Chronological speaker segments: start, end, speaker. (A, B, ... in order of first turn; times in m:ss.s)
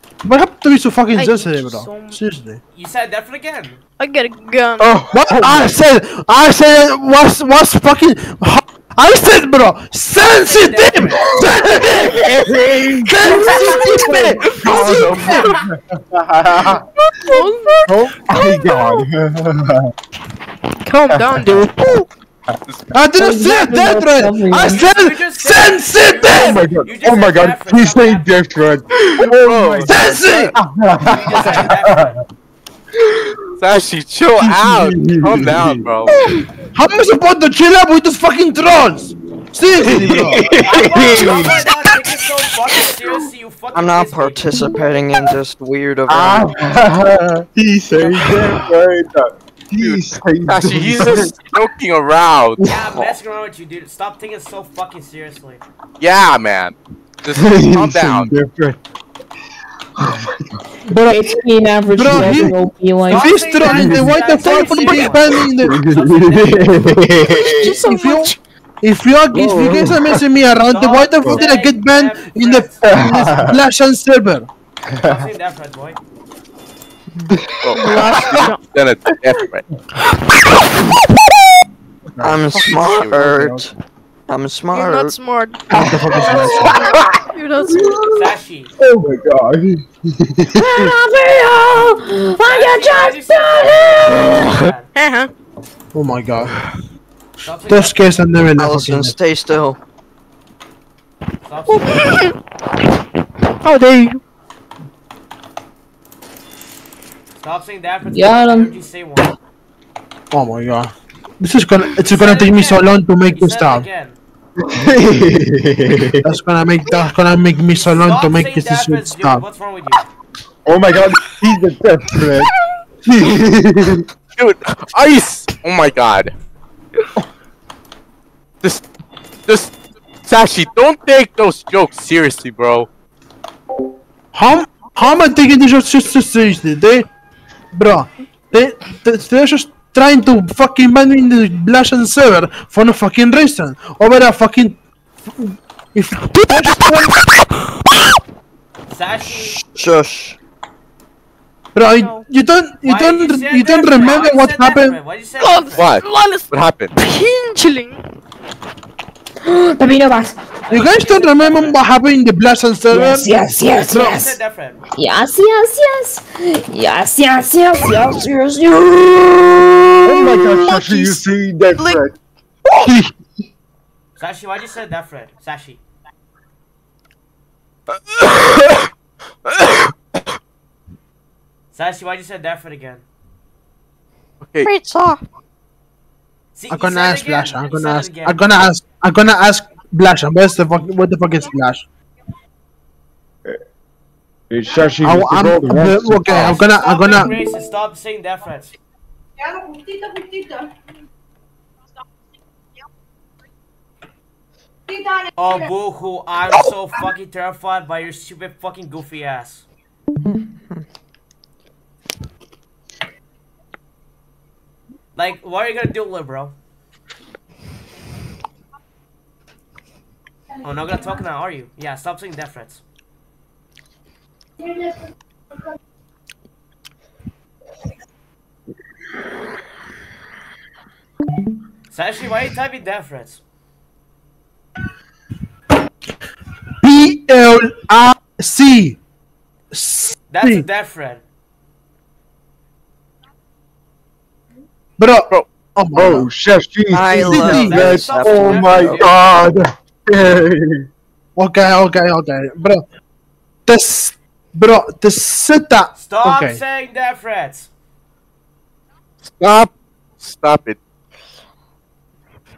0:00.2-0:02.6 A
0:01.1-0:02.2 B
0:02.7-0:03.8 C
0:04.0-0:04.9 B
0:04.8-0:05.8 D
0:05.1-0:12.4 A
0:10.3-0:11.8 C
0:11.8-0:16.8 D
0:13.0-0:15.5 A
0:14.5-0:15.5 E
0:17.1-0:19.1 B
0:17.9-0:19.9 D
0:20.8-0:21.9 B
0:21.1-0:21.9 D
0:22.9-0:26.6 A
0:23.2-0:24.9 F
0:24.6-0:28.4 C
0:26.2-0:30.0 D
0:29.2-0:30.5 E
0:29.9-0:30.5 A
0:30.5-0:32.2 D
0:31.0-0:32.2 C
0:33.6-0:36.2 E
0:34.4-0:35.8 D
0:36.7-0:40.4 A
0:39.8-0:41.9 D
0:40.6-0:44.5 C
0:43.7-0:46.5 G
0:46.1-0:51.4 D
0:49.8-0:52.7 E
0:52.7-0:55.6 C
0:56.0-0:58.3 E
0:57.3-0:58.8 D
1:00.0-1:00.3 D
1:00.9-1:01.2 A
1:00.9-1:03.4 F
1:02.0-1:02.6 A
1:02.1-1:02.5 D
1:03.1-1:05.8 A
1:03.1-1:06.7 C
1:03.7-1:04.0 D
1:05.6-1:07.9 D
1:07.6-1:08.4 B
1:07.9-1:14.5 A
1:09.3-1:10.2 D
1:10.7-1:12.8 C
1:12.8-1:13.6 D
1:15.0-1:15.3 D
1:15.0-1:16.0 C
1:17.5-1:18.5 D
1:17.6-1:19.6 E
1:17.8-1:18.7 B
1:22.2-1:23.7 D
1:22.2-1:23.7 G
1:22.7-1:23.2 E
1:24.3-1:25.2 G
1:24.7-1:25.6 B
1:25.7-1:27.1 D
1:25.7-1:26.8 A
1:27.3-1:28.0 B
1:27.6-1:28.0 D
1:28.1-1:28.7 C
1:28.8-1:30.9 D
1:30.6-1:34.7 F
1:32.4-1:34.9 C
1:35.0-1:35.3 B
1:35.9-1:36.6 A
1:37.4-1:38.1 C
1:37.7-1:39.2 A
1:38.6-1:39.8 G
1:41.4-1:42.3 C
1:41.7-1:42.3 B
1:43.6-1:44.2 B
1:47.4-1:49.3 C
1:48.1-1:48.7 F
1:50.3-1:53.9 A
1:52.0-1:54.2 C
1:54.7-1:56.2 D
1:56.2-1:59.4 A
1:57.7-2:00.0 C
2:00.7-2:02.5 D
2:03.0-2:04.0 D
2:04.4-2:06.3 E
2:09.5-2:09.7 E
2:10.2-2:12.9 E
2:14.3-2:17.1 A
2:17.7-2:24.8 A
2:25.4-2:27.2 A
2:28.9-2:29.6 C
2:29.6-2:30.4 G
2:31.7-2:35.0 A
2:31.8-2:32.3 B
2:32.8-2:36.0 C
2:35.4-2:38.0 B
2:35.8-2:36.9 E
2:39.4-2:40.4 F
2:40.7-2:41.8 C
2:40.7-2:43.3 A
2:42.9-2:44.4 F
2:43.8-2:44.8 C
2:43.9-2:44.2 A
2:44.9-2:50.4 F
2:50.0-2:52.1 D
2:50.6-2:51.2 B
2:51.8-2:52.0 B
2:52.8-2:53.1 D
2:54.2-2:55.8 C
2:57.9-2:58.9 E
2:59.5-2:59.9 E
3:01.7-3:03.0 C
3:04.4-3:04.7 E
3:04.6-3:05.2 B
3:06.6-3:08.4 C
3:06.7-3:11.9 A
3:14.5-3:16.6 D
3:15.0-3:17.4 A
3:16.3-3:18.8 C
3:25.4-3:29.6 C
3:35.2-3:36.6 C
3:40.6-3:42.8 C
3:51.9-3:53.4 C
3:56.8-3:59.0 A
3:59.7-4:00.7 A
4:00.3-4:01.2 C
4:05.0-4:06.3 A
4:06.0-4:10.9 D
4:06.9-4:09.1 G
4:07.2-4:07.9 A
4:07.3-4:09.3 C
4:11.4-4:12.8 A
4:13.7-4:16.6 A
4:16.0-4:17.7 C
4:19.2-4:20.8 E